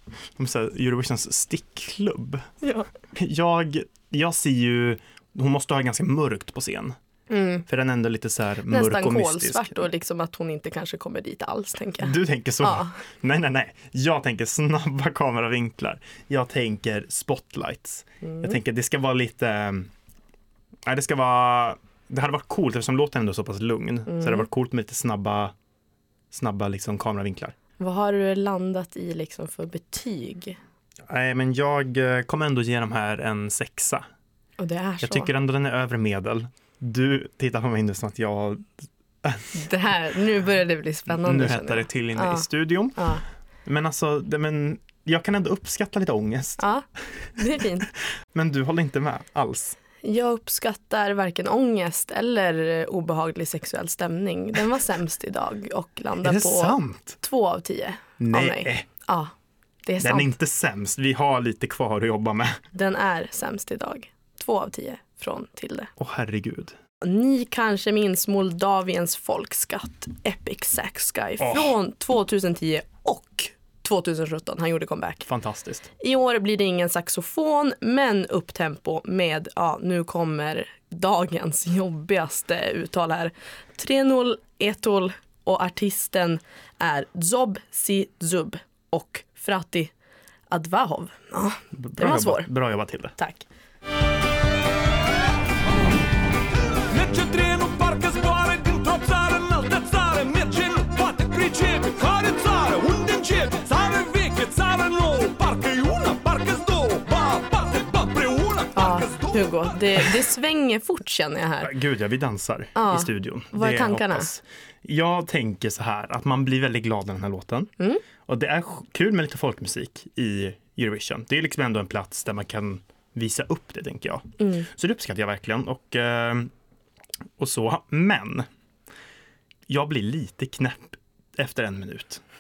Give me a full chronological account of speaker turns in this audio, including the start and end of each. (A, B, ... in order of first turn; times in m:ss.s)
0:00.4-0:02.5 A
0:02.6-0:02.9 B
0:03.1-0:07.0 A
0:07.3-0:07.6 B
0:07.7-0:09.8 A
0:08.7-0:12.9 B
0:12.0-0:19.9 A
0:18.2-0:18.6 B
0:20.8-0:25.5 A
0:24.1-0:24.5 B
0:26.3-0:27.6 A
0:27.8-0:30.6 B
0:31.1-0:34.1 A
0:34.6-0:35.3 B
0:35.0-0:38.7 A
0:39.2-0:39.6 A
0:39.5-0:43.2 B
0:41.1-0:43.1 A
0:43.6-0:46.6 A
0:46.6-0:46.9 B
0:47.4-0:47.9 B
0:47.8-0:49.8 A
0:50.0-0:59.3 B
0:56.2-0:57.2 A
0:58.2-0:58.9 A
0:59.8-1:00.4 B
1:00.0-1:02.6 A
1:02.7-1:05.9 B
1:06.0-1:06.8 A
1:07.0-1:15.3 B
1:11.4-1:11.8 A
1:15.3-1:15.9 A
1:16.0-1:29.9 B
1:30.5-1:32.5 B
1:31.8-1:33.2 A
1:33.2-1:33.4 B
1:36.9-1:49.7 C
1:48.8-1:51.7 B
1:51.6-1:57.7 A
1:52.8-1:54.3 B
1:58.3-2:06.5 A
2:04.4-2:04.7 B
2:07.4-2:08.5 A
2:09.7-2:12.2 A